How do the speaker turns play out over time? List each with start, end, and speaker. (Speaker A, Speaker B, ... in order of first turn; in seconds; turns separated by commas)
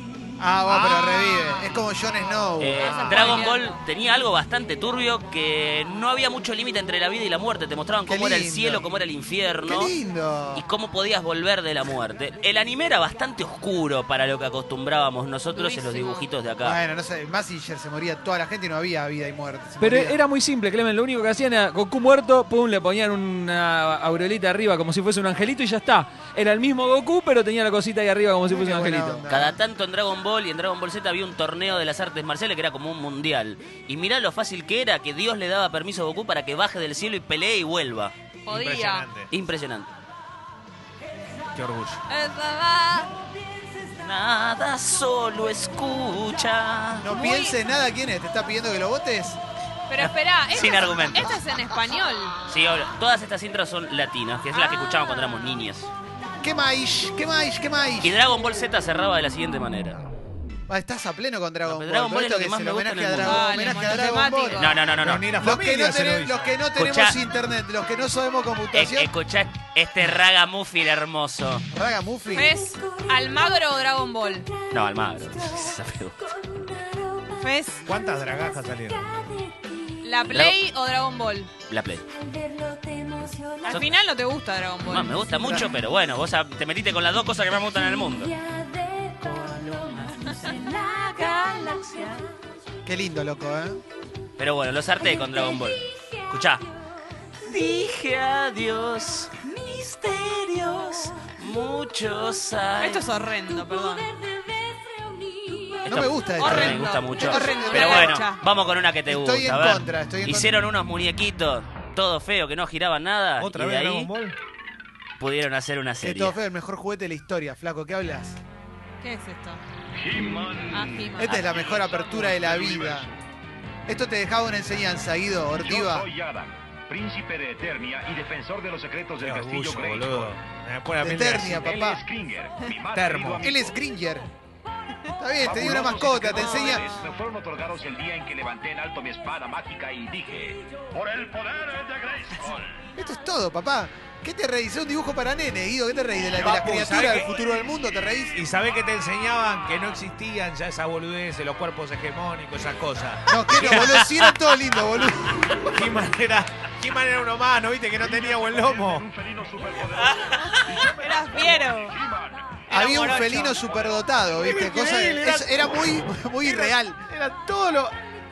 Speaker A: 0.4-3.5, Speaker B: 0.7-1.1, Speaker C: 0.8-1.7, Speaker D: 2.6-9.9, Speaker C: 2.7-3.8, Speaker A: 8.1-8.8, Speaker A: 9.7-10.6, Speaker D: 10.5-16.8, Speaker C: 15.5-16.3, Speaker A: 16.6-20.2, Speaker E: 19.8-29.3, Speaker A: 28.5-29.6, Speaker D: 29.3-38.1, Speaker C: 38.5-39.1, Speaker B: 38.5-39.3, Speaker D: 39.3-39.9, Speaker B: 41.5-42.0, Speaker C: 42.1-43.2, Speaker D: 44.0-47.1, Speaker A: 47.0-49.4, Speaker C: 47.1-47.5, Speaker C: 49.9-52.4, Speaker D: 50.1-51.4, Speaker D: 52.5-55.9, Speaker C: 54.5-55.6, Speaker A: 56.4-58.2, Speaker D: 58.0-60.1, Speaker A: 60.7-64.7, Speaker D: 61.6-63.5, Speaker C: 63.2-64.8, Speaker D: 64.6-65.3, Speaker B: 64.9-66.5, Speaker A: 65.4-69.1, Speaker D: 66.7-67.2, Speaker D: 68.7-71.7, Speaker A: 71.7-72.6, Speaker C: 72.3-74.5, Speaker D: 74.7-76.3, Speaker C: 77.3-77.8, Speaker B: 77.8-79.2, Speaker C: 80.0-81.5, Speaker D: 80.3-80.5, Speaker D: 81.7-82.1, Speaker C: 83.6-85.6, Speaker D: 83.6-83.9, Speaker D: 84.8-88.4, Speaker D: 89.0-92.2, Speaker A: 92.8-93.8, Speaker D: 94.4-96.7, Speaker D: 97.4-103.0, Speaker C: 102.8-104.3, Speaker D: 105.8-114.1, Speaker A: 105.8-108.2, Speaker C: 106.3-108.4, Speaker A: 109.0-110.7, Speaker B: 113.4-114.4, Speaker D: 115.2-116.4, Speaker A: 116.0-118.4, Speaker C: 119.0-119.6, Speaker F: 120.0-123.2, Speaker C: 120.7-121.3, Speaker A: 121.2-123.1, Speaker A: 123.9-126.1, Speaker F: 125.6-130.4, Speaker B: 129.2-131.7, Speaker A: 131.0-132.0, Speaker F: 131.5-133.8, Speaker B: 132.9-133.5, Speaker A: 133.4-134.3, Speaker A: 135.2-136.8, Speaker F: 135.4-142.8, Speaker C: 136.4-136.8, Speaker A: 142.9-148.4, Speaker B: 146.3-147.3, Speaker B: 148.3-154.0, Speaker A: 153.3-155.7, Speaker D: 153.5-154.0, Speaker B: 155.7-159.1, Speaker F: 158.0-164.3, Speaker C: 160.5-161.9, Speaker A: 162.7-167.1, Speaker B: 164.4-167.9